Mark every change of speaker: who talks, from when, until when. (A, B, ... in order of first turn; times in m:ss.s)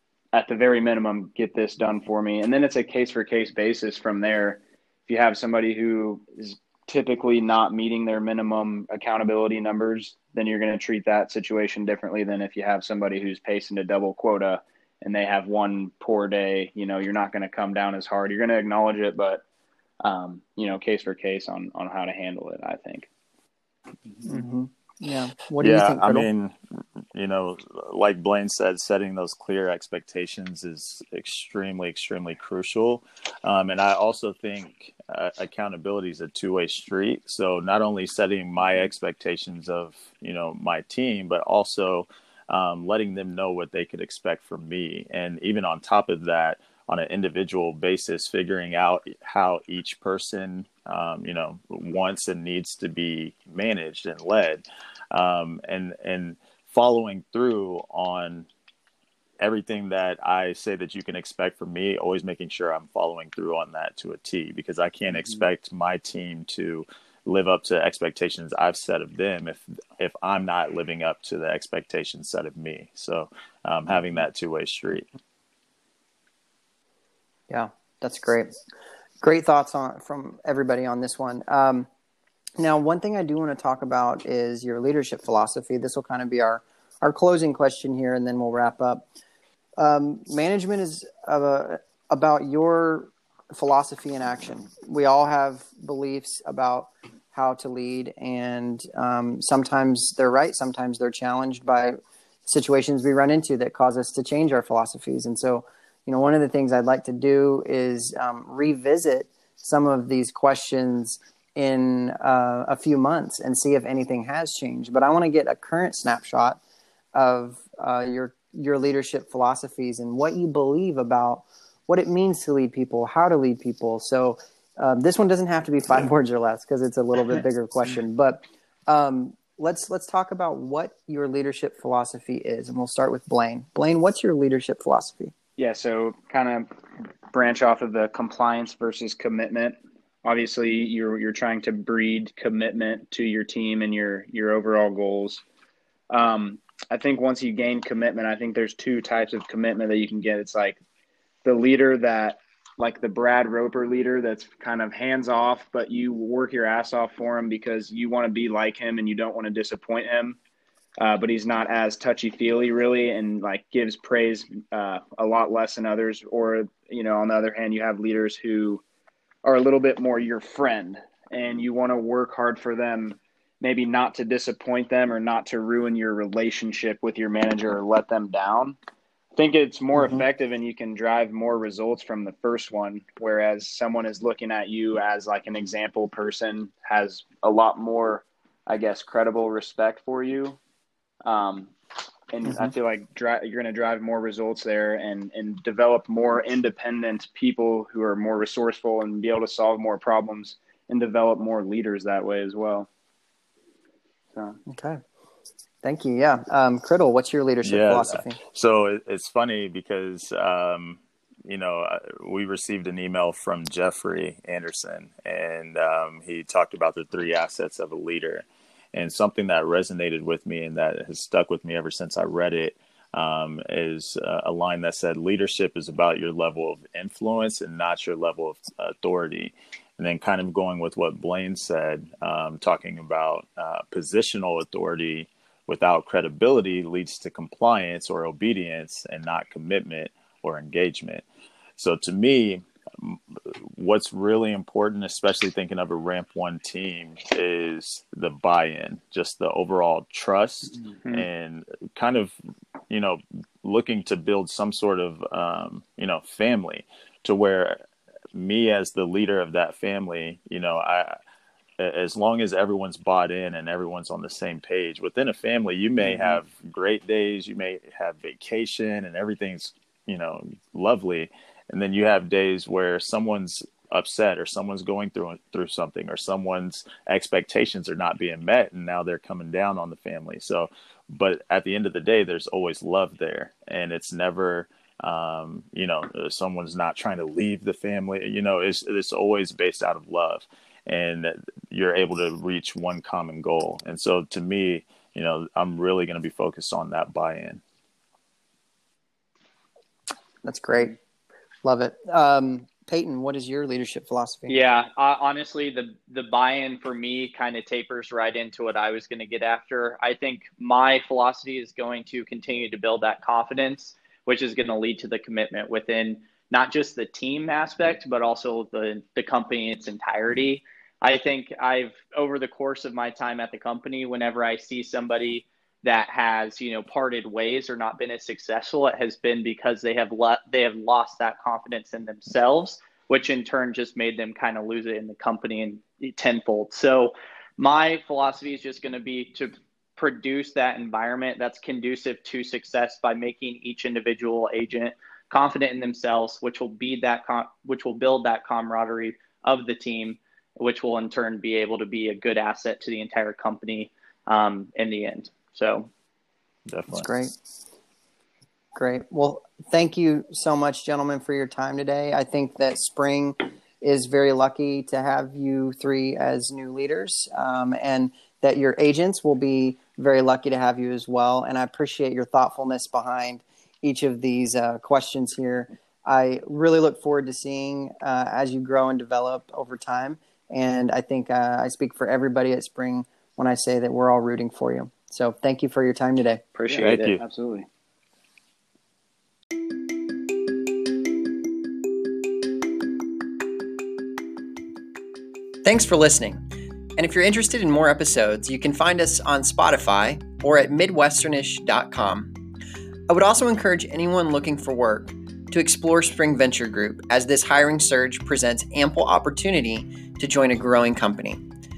0:00.3-0:19.4 A
0:20.0-0:23.1 A
0:24.2-0:26.3 B
0:25.6-0:58.5 C
0:59.4-1:15.1 C
1:17.5-1:18.5 B
1:19.2-1:21.9 B
1:22.6-1:29.1 B
1:29.8-1:56.6 B
1:57.1-2:15.3 B
2:15.6-2:16.7 A
2:17.3-2:25.4 A
2:26.1-2:30.8 A
2:31.4-2:40.4 A
2:41.0-2:48.8 A
2:49.4-2:58.8 A
2:59.3-3:10.6 A
3:11.2-3:11.8 A
3:12.3-3:22.9 A
3:12.4-3:12.7 B
3:24.3-3:24.6 A
3:24.7-3:25.0 B
3:25.8-3:28.4 B
3:27.6-4:01.2 C
4:01.8-4:12.3 C
4:12.9-4:21.2 C
4:21.8-4:57.6 C
5:00.4-5:01.0 B
5:01.6-5:04.5 B
5:04.5-5:55.9 D
5:56.7-5:57.1 C
5:56.9-5:57.3 B
5:58.7-6:26.4 B
6:26.6-6:27.7 A
6:26.7-6:27.2 C
6:35.6-6:36.4 B
6:37.0-6:42.4 B
6:43.1-6:51.4 B